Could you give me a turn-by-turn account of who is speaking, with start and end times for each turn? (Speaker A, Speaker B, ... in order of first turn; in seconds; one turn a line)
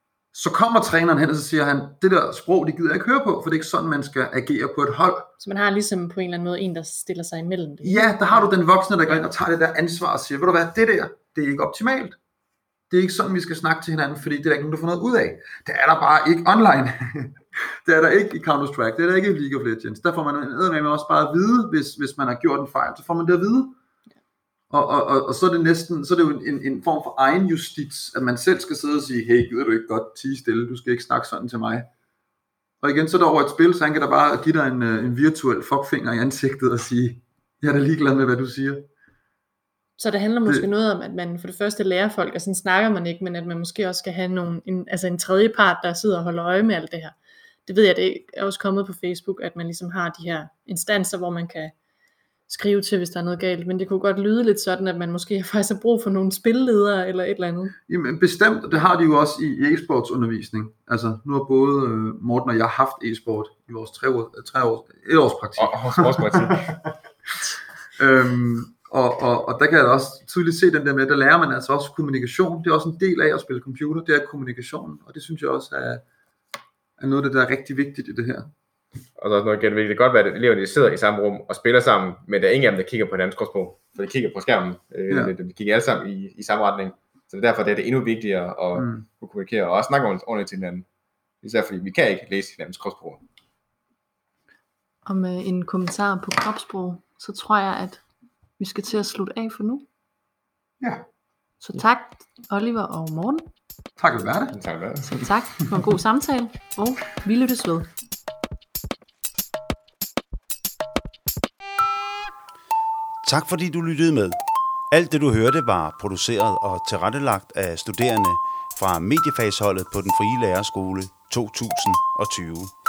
Speaker A: 0.3-5.3
Speaker B: 5.4-8.5
Speaker A: 7.8-12.2
Speaker A: 12.9-23.8
Speaker A: 24.7-31.9
Speaker A: 32.8-38.9
Speaker B: 40.0-51.7
Speaker B: 52.5-57.8
Speaker A: 57.9-66.5
Speaker C: 65.6-66.7
Speaker A: 67.9-76.0
Speaker A: 77.0-78.5
Speaker C: 79.2-90.8
Speaker A: 85.1-85.3
Speaker A: 88.7-89.0
Speaker C: 91.4-93.2
Speaker B: 95.0-98.0
Speaker B: 98.6-99.9
Speaker A: 100.8-101.0
Speaker B: 101.6-103.5
Speaker A: 104.0-104.6
Speaker C: 104.5-105.3
Speaker B: 105.1-107.9
Speaker D: 113.2-114.4
Speaker D: 114.9-122.7